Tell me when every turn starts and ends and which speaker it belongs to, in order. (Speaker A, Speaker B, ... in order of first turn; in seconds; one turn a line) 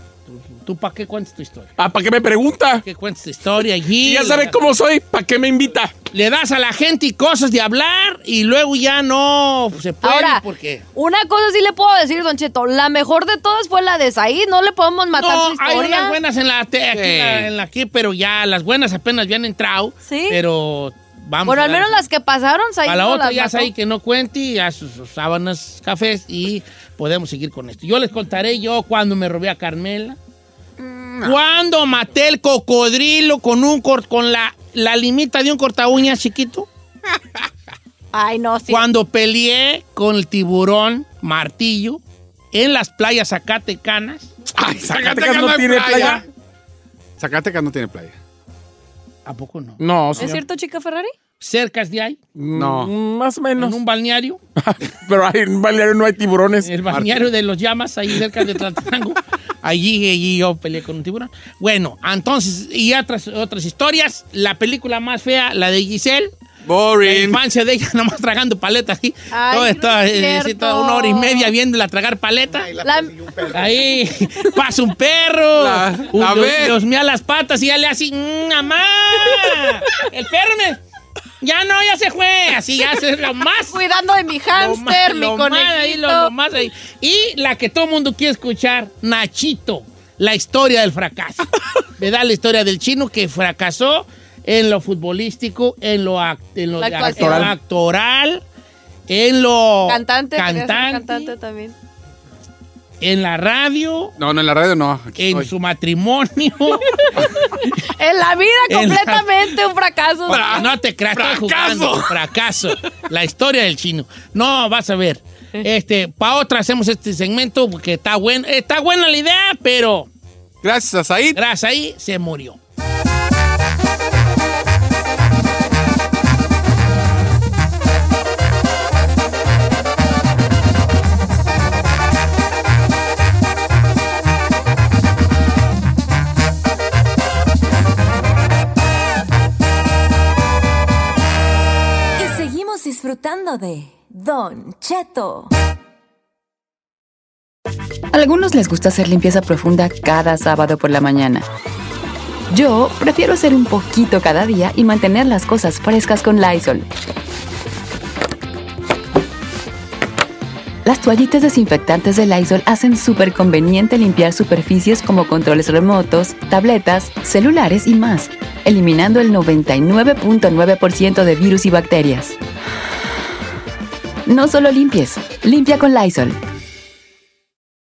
Speaker A: 0.3-1.7
Speaker B: 1.8-2.9
Speaker A: 2.8-4.6
Speaker B: 4.0-5.9
Speaker A: 6.1-10.8
Speaker C: 10.0-10.4
Speaker C: 10.9-16.2
Speaker A: 15.1-22.1
Speaker D: 16.9-17.5
Speaker C: 20.1-20.4
Speaker C: 21.4-23.7
Speaker A: 22.9-30.2
Speaker D: 30.8-31.4
Speaker A: 31.2-36.7
Speaker C: 38.1-38.9
Speaker A: 38.7-42.0
Speaker A: 42.5-44.3
Speaker D: 44.5-46.2
Speaker B: 44.8-46.2
Speaker D: 47.2-48.1
Speaker A: 49.2-50.4
Speaker B: 49.8-50.4
Speaker C: 50.1-51.1
Speaker A: 51.4-52.2
Speaker B: 52.4-53.8
Speaker D: 52.5-52.9
Speaker A: 53.6-54.4
Speaker B: 54.6-56.7
Speaker A: 56.6-66.3
Speaker D: 56.9-57.2
Speaker D: 66.7-67.4
Speaker A: 67.0-72.8
Speaker C: 69.3-71.5
Speaker D: 72.8-73.5
Speaker C: 72.8-73.2
Speaker A: 73.5-80.8
Speaker D: 75.6-76.8
Speaker A: 81.4-83.8
Speaker C: 83.7-86.3
Speaker A: 84.5-98.4
Speaker C: 96.8-97.5
Speaker B: 97.1-97.5
Speaker A: 99.1-101.3
Speaker C: 99.9-101.7
Speaker A: 103.0-104.1
Speaker D: 104.2-105.5
Speaker A: 105.2-107.0
Speaker C: 106.9-110.7
Speaker A: 108.7-109.5
Speaker D: 110.3-112.2
Speaker A: 110.3-120.1
Speaker D: 120.6-121.4
Speaker A: 121.3-122.6
Speaker E: 142.2-145.5
Speaker F: 148.1-151.5
Speaker F: 152.5-156.9
Speaker F: 160.8-172.4
Speaker F: 174.3-176.4